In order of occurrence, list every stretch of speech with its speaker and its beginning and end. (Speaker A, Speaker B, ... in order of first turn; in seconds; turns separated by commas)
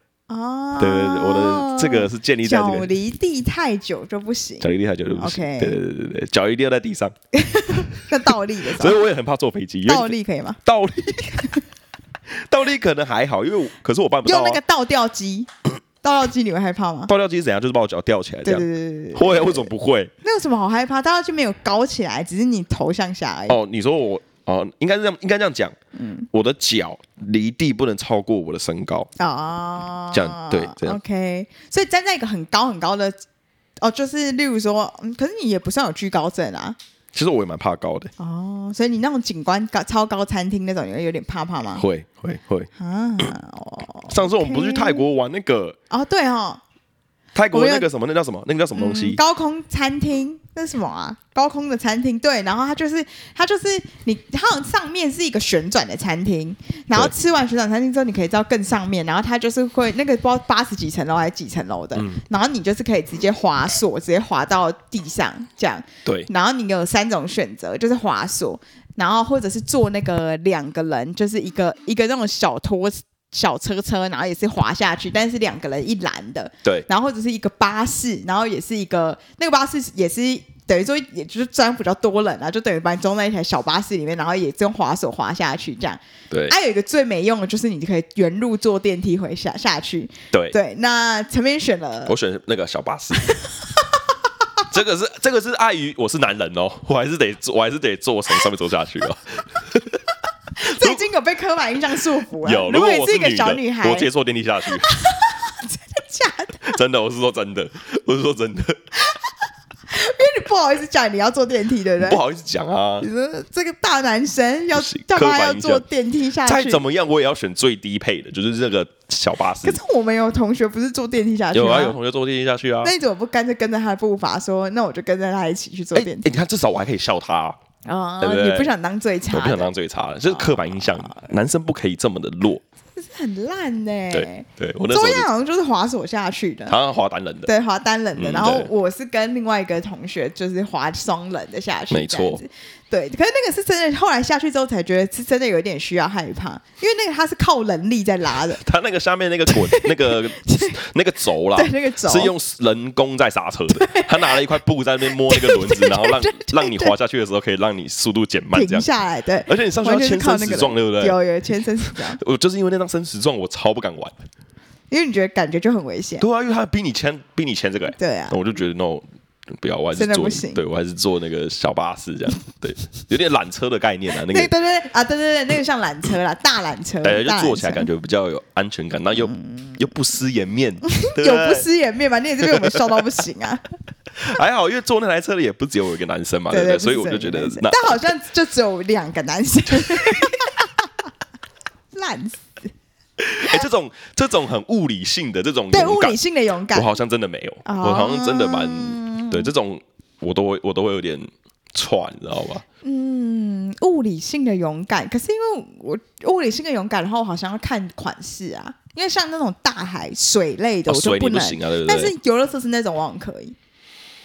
Speaker A: 0.3-5.8, Speaker B: 0.8-2.9, Speaker B: 4.6-7.1, Speaker A: 7.3-9.0, Speaker B: 7.8-8.0, Speaker B: 8.7-11.5, Speaker A: 9.8-10.6, Speaker B: 12.3-14.6, Speaker A: 14.2-15.5, Speaker A: 16.0-17.1, Speaker B: 17.1-20.1, Speaker A: 18.4-19.7, Speaker A: 20.2-23.6, Speaker B: 23.5-25.8, Speaker A: 25.9-26.3, Speaker B: 26.3-29.1, Speaker A: 29.2-33.2, Speaker B: 30.1-31.0, Speaker A: 33.8-36.8, Speaker B: 37.1-38.1, Speaker A: 38.2-41.8, Speaker B: 41.7-42.7, Speaker A: 42.8-45.0, Speaker B: 44.1-45.8, Speaker A: 45.9-46.6, Speaker B: 47.3-49.2, Speaker A: 47.5-47.9, Speaker A: 48.7-92.2, Speaker B: 62.0-62.2, Speaker B: 90.3-90.6, Speaker B: 92.0-93.3, Speaker A: 93.2-94.0, Speaker B: 94.7-100.0, Speaker A: 100.6-104.1, Speaker B: 102.4-104.9, Speaker A: 104.8-106.7, Speaker B: 106.6-108.8, Speaker A: 109.9-112.2, Speaker B: 112.0-113.1, Speaker A: 113.0-116.8, Speaker B: 114.7-115.8, Speaker B: 116.4-119.8, Speaker A: 119.6-122.0, Speaker B: 121.5-122.9, Speaker A: 122.8-126.3, Speaker B: 125.9-127.6, Speaker A: 127.8-129.7, Speaker B: 128.2-128.7, Speaker B: 129.3-132.6, Speaker A: 130.2-131.3, Speaker A: 132.9-136.8, Speaker B: 134.1-135.3, Speaker B: 136.7-137.5, Speaker A: 137.4-148.6, Speaker B: 138.2-138.7, Speaker B: 141.9-142.4, Speaker B: 148.6-158.9, Speaker A: 149.5-150.8, Speaker A: 151.5-152.3, Speaker A: 153.7-154.4, Speaker A: 155.2-156.9, Speaker A: 158.5-162.2, Speaker B: 159.5-161.2, Speaker B: 161.8-164.1, Speaker A: 164.9-166.2, Speaker B: 166.2-169.1, Speaker A: 167.9-168.4, Speaker B: 169.6-174.5, Speaker A: 169.9-170.6, Speaker A: 174.1-177.9, Speaker B: 177.0-181.7, Speaker A: 179.1-179.8, Speaker A: 180.9-183.6, Speaker B: 182.6-183.0, Speaker B: 184.2-188.1, Speaker A: 186.5-190.7, Speaker A: 191.9-192.6, Speaker B: 193.2-196.2, Speaker A: 195.7-196.9, Speaker B: 196.7-202.6, Speaker A: 197.6-199.5, Speaker A: 202.8-213.5, Speaker B: 210.9-212.1